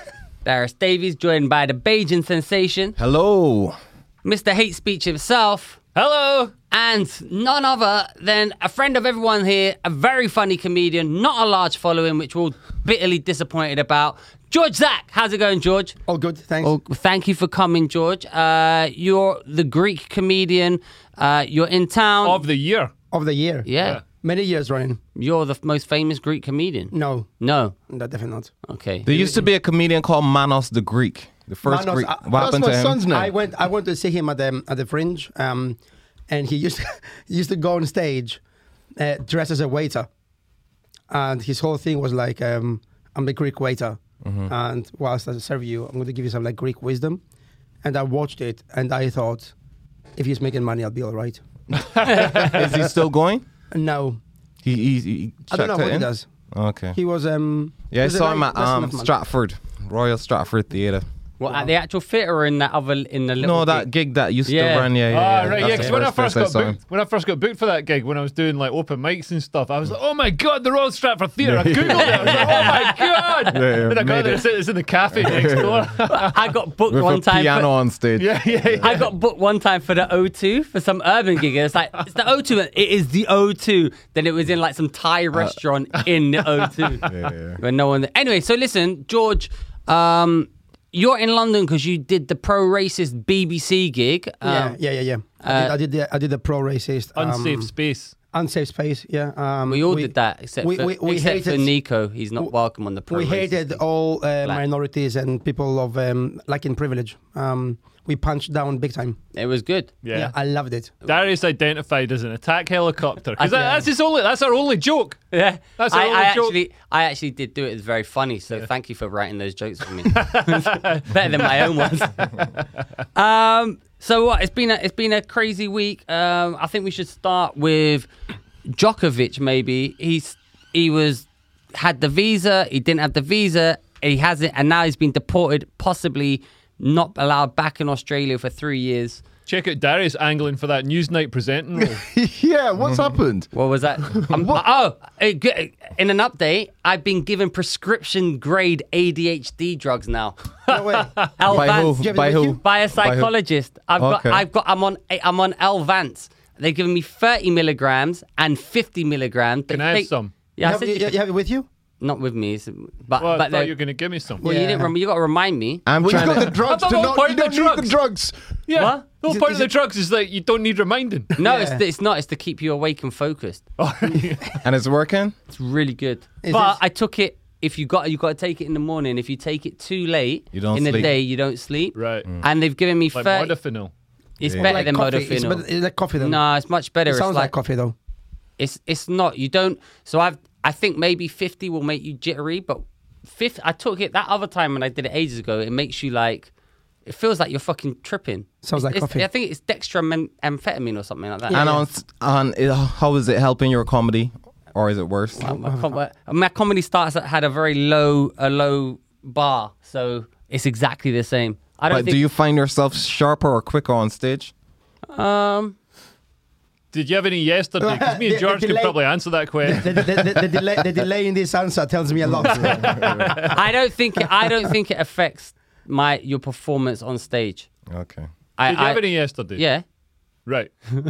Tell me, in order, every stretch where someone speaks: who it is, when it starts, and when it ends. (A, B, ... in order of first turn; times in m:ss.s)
0:00.4-0:03.0 A
0:03.0-0:03.8 B
0:04.2-0:05.8 A
0:05.9-0:06.5 C
0:06.7-0:16.0 A
0:16.1-0:16.7 D
0:16.6-0:22.4 A
0:22.2-0:22.9 C
0:23.1-0:23.7 D
0:23.6-0:24.0 A
0:24.2-0:25.0 D
0:25.1-0:27.8 A
0:26.9-0:27.3 D
0:27.9-0:28.5 D
0:28.6-0:29.4 A
0:29.0-0:33.0 B
0:31.6-0:35.8 D
0:32.3-0:33.3 E
0:36.3-0:38.4 D
0:39.0-0:40.1 D
0:41.1-0:47.2 D
0:44.2-0:44.5 B
0:47.8-0:49.5 D
0:50.2-0:51.4 D
0:52.0-0:52.7 C
0:52.1-0:53.4 B
0:52.1-0:52.6 D
0:53.7-0:54.2 D
0:54.6-0:57.0 B
0:55.5-0:56.2 D
0:56.9-0:59.1 D
0:57.9-1:01.0 B
1:01.4-1:03.9 A
1:01.4-1:01.7 D
1:03.4-1:06.8 B
1:04.4-1:05.9 A
1:05.1-1:16.3 C
1:11.4-1:12.7 B
1:11.9-1:13.5 A
1:13.5-1:14.5 B
1:15.1-1:15.9 B
1:16.0-1:17.7 A
1:16.9-1:18.9 B
1:18.2-1:19.1 C
1:18.8-1:34.8 A
1:27.0-1:27.6 B
1:34.4-1:37.7 D
1:35.4-1:35.7 A
1:37.2-1:38.1 C
1:38.3-1:41.7 D
1:39.7-1:43.8 A
1:43.1-1:49.2 D
1:49.3-1:49.9 A
1:50.0-1:50.3 C
1:50.1-1:50.9 D
1:51.0-1:55.2 C
1:53.4-1:53.9 A
1:55.3-2:02.4 A
1:55.8-1:56.5 C
2:00.1-2:01.8 C
2:03.1-2:08.1 A
2:08.7-2:19.2 A
2:19.5-2:22.0 C
2:21.8-2:23.5 E
2:23.5-2:30.4 A
2:24.1-2:24.6 E
2:30.7-2:32.6 D
2:30.7-2:31.3 C
2:31.4-2:41.1 A
2:31.4-2:33.3 B
2:34.0-2:34.4 B
2:39.7-2:40.3 C
2:40.6-2:41.7 D
2:42.0-2:43.7 A
2:43.2-2:44.4 C
2:44.4-2:45.8 A
2:44.4-2:44.9 D
2:45.8-2:46.5 B
2:46.0-2:48.4 E
2:46.1-2:47.9 C
2:48.7-2:51.3 C
2:48.8-2:49.0 A
2:49.3-2:49.7 D
2:51.4-2:51.8 D
2:51.4-2:53.6 A
2:53.8-2:54.6 C
2:54.6-2:55.3 B
2:55.5-3:03.5 A
2:56.4-2:56.8 D
3:00.5-3:01.1 B
3:01.9-3:02.3 C
3:03.1-3:03.9 C
3:04.4-3:05.6 A
3:04.4-3:04.9 B
3:04.6-3:06.4 D
3:06.2-3:07.5 A
3:07.0-3:07.9 D
3:08.6-3:16.5 A
3:17.0-3:21.7 A
3:18.6-3:19.2 D
3:21.5-3:21.8 D
3:21.5-3:25.5 B
3:25.3-3:32.2 A
3:25.4-3:25.9 D
3:31.9-3:34.5 B
3:35.1-3:35.8 A
3:36.9-3:40.5 C
3:37.8-3:39.0 D
3:39.6-3:43.6 D
3:42.4-3:43.3 B
3:42.5-3:43.6 C
3:43.0-3:47.7 A
3:47.9-3:48.3 B
3:48.6-3:49.8 A
3:48.6-3:49.6 C
3:50.4-3:50.7 C